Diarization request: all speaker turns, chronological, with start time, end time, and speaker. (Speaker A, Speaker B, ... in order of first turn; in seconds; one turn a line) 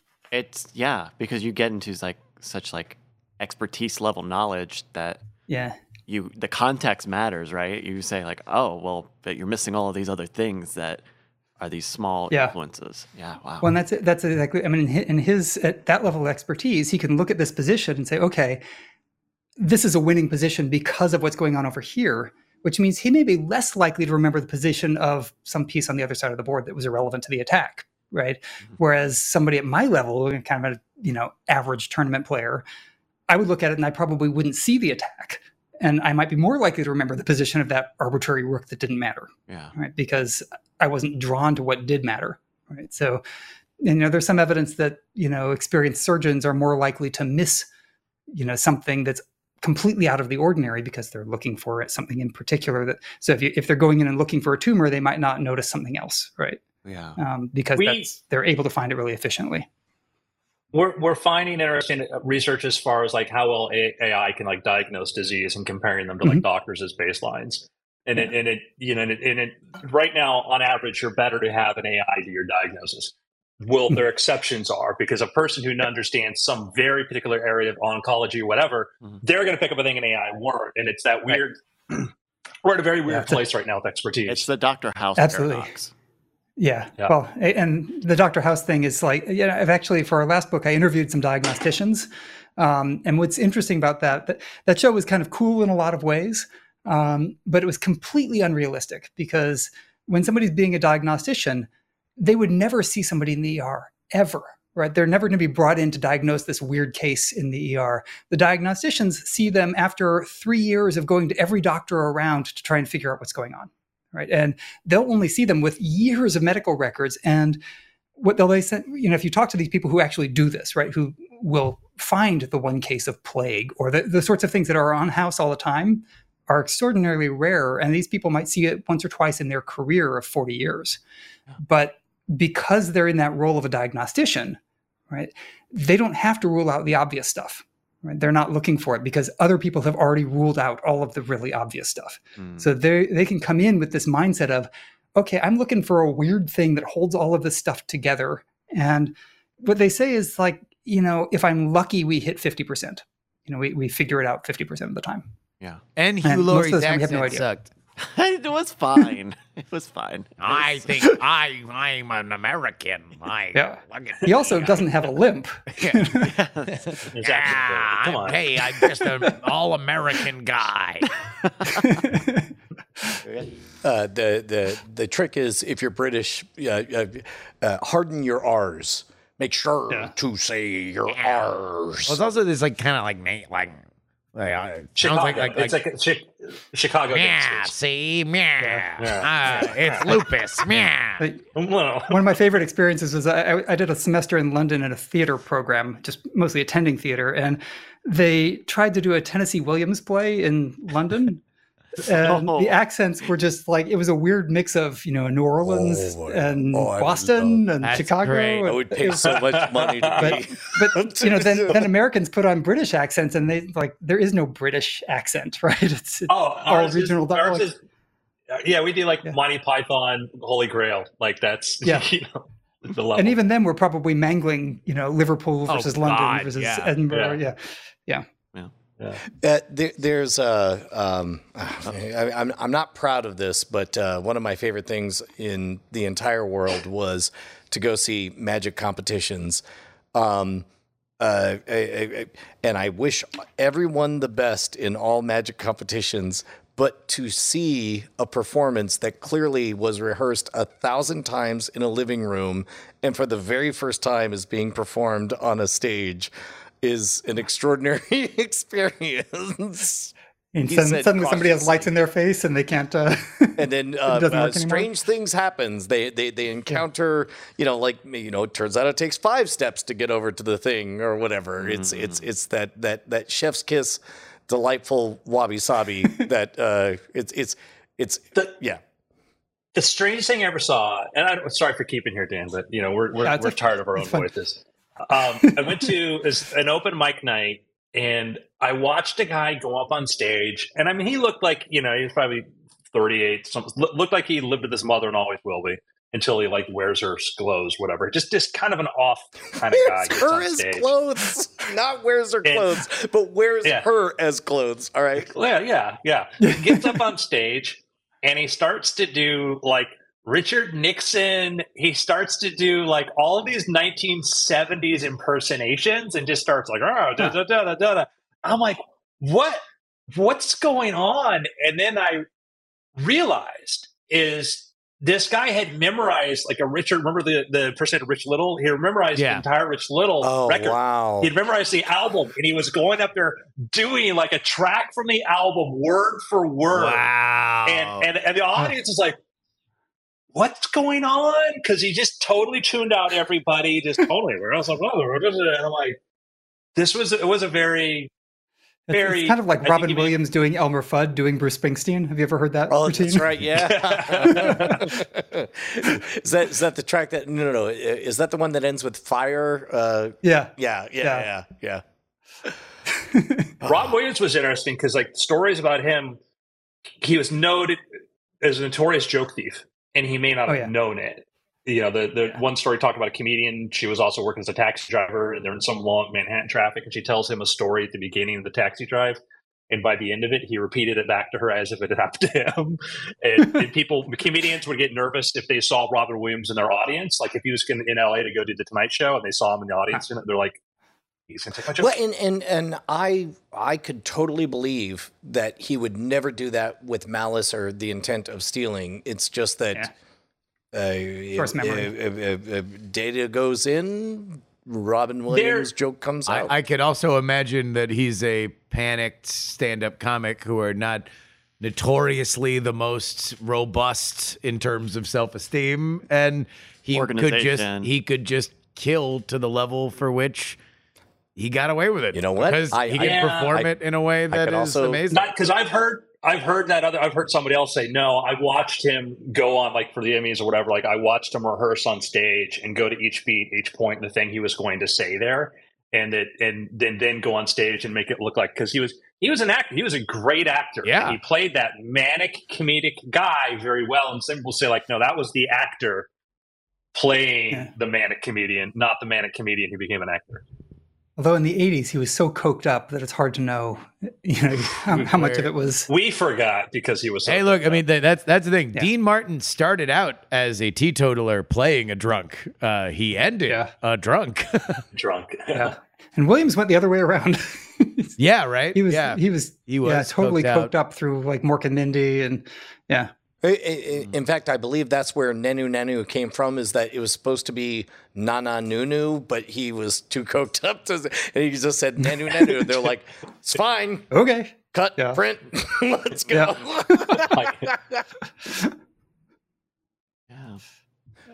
Speaker A: 0.3-5.2
Speaker B: 5.5-5.8
Speaker A: 6.1-11.0
Speaker A: 11.6-13.7
Speaker B: 13.6-18.6
Speaker B: 19.6-32.6
Speaker B: 33.3-43.2
Speaker A: 39.5-39.7
Speaker B: 43.8-47.7
Speaker B: 48.3-56.6
Speaker A: 56.9-57.2
Speaker B: 57.2-59.7
Speaker C: 57.8-58.1
Speaker C: 60.7-82.1
Speaker C: 82.6-84.5
Speaker B: 83.1-83.4
Speaker A: 84.3-85.9
Speaker B: 85.2-85.7
Speaker B: 86.6-101.7
Speaker B: 102.2-117.6
Speaker B: 118.2-131.0
Speaker B: 131.6-134.6
Speaker B: 135.1-155.3
Speaker A: 142.4-142.7
Speaker D: 156.0-157.7
Speaker B: 156.2-157.4
Speaker A: 158.0-160.9
Speaker D: 160.4-164.9
Speaker B: 163.5-166.3
Speaker D: 165.7-166.1
Speaker A: 166.2-167.1
Speaker D: 166.7-171.2
Speaker C: 167.1-168.4
Speaker B: 171.7-173.2
Speaker E: 173.8-182.2
Speaker D: 182.1-183.8
Speaker D: 184.3-185.8
Speaker C: 185.0-187.7
Speaker D: 187.1-191.2
Speaker C: 189.0-190.2
Speaker C: 191.6-192.2
Speaker B: 192.1-201.4
Speaker B: 202.0-209.3
Speaker A: 202.2-202.8
Speaker E: 205.7-207.7
Speaker D: 207.8-208.7
Speaker E: 208.6-211.9
Speaker C: 209.2-210.4
Speaker B: 210.2-217.7
Speaker C: 216.3-217.8
Speaker C: 218.5-223.4
Speaker B: 221.8-222.1
Speaker B: 223.2-228.2
Speaker D: 225.7-227.0
Speaker C: 227.1-227.4
Speaker E: 229.4-239.6
Speaker E: 240.1-240.7
Speaker E: 241.2-256.3
Speaker E: 256.8-260.1
Speaker B: 260.5-264.9
Speaker E: 260.6-261.9
Speaker E: 263.6-278.8
Speaker A: 271.6-272.2
Speaker C: 279.8-301.0
Speaker B: 283.2-284.3
Speaker B: 285.4-285.9
Speaker E: 299.8-305.3
Speaker C: 302.4-302.7
Speaker C: 305.3-322.3
Speaker B: 306.4-307.1
Speaker C: 323.0-337.1
Speaker D: 329.1-329.4
Speaker E: 330.2-331.3
Speaker D: 336.7-338.1
Speaker C: 337.6-339.2
Speaker C: 340.3-346.0
Speaker C: 346.8-348.1
Speaker B: 348.9-353.4
Speaker C: 348.9-350.2
Speaker E: 352.7-361.8
Speaker C: 353.6-354.9
Speaker B: 354.3-354.8
Speaker B: 360.2-361.3
Speaker B: 362.9-363.6
Speaker C: 363.6-366.2
Speaker C: 367.0-367.8
Speaker C: 368.4-379.2
Speaker B: 370.5-370.7
Speaker C: 379.7-390.6
Speaker C: 391.3-392.0
Speaker E: 391.8-399.9
Speaker E: 400.7-406.5
Speaker B: 401.4-401.9
Speaker C: 405.3-405.7
Speaker D: 406.3-411.1
Speaker D: 411.6-420.6
Speaker A: 416.9-417.9
Speaker D: 421.4-425.3
Speaker E: 422.1-423.7
Speaker C: 423.0-423.5
Speaker E: 424.3-425.0
Speaker C: 425.1-446.1
Speaker D: 440.8-441.2
Speaker C: 446.9-450.4
Speaker B: 451.2-455.9
Speaker D: 454.9-455.5
Speaker C: 455.9-457.8
Speaker D: 457.3-464.8
Speaker B: 463.5-463.7
Speaker C: 464.9-465.8
Speaker B: 465.5-468.2
Speaker D: 468.2-470.7
Speaker B: 468.7-473.1
Speaker E: 473.4-484.1
Speaker B: 482.0-482.7
Speaker B: 484.1-485.2
Speaker E: 484.7-488.1
Speaker B: 486.3-487.3
Speaker C: 487.3-487.7
Speaker B: 488.4-488.7
Speaker A: 490.3-490.6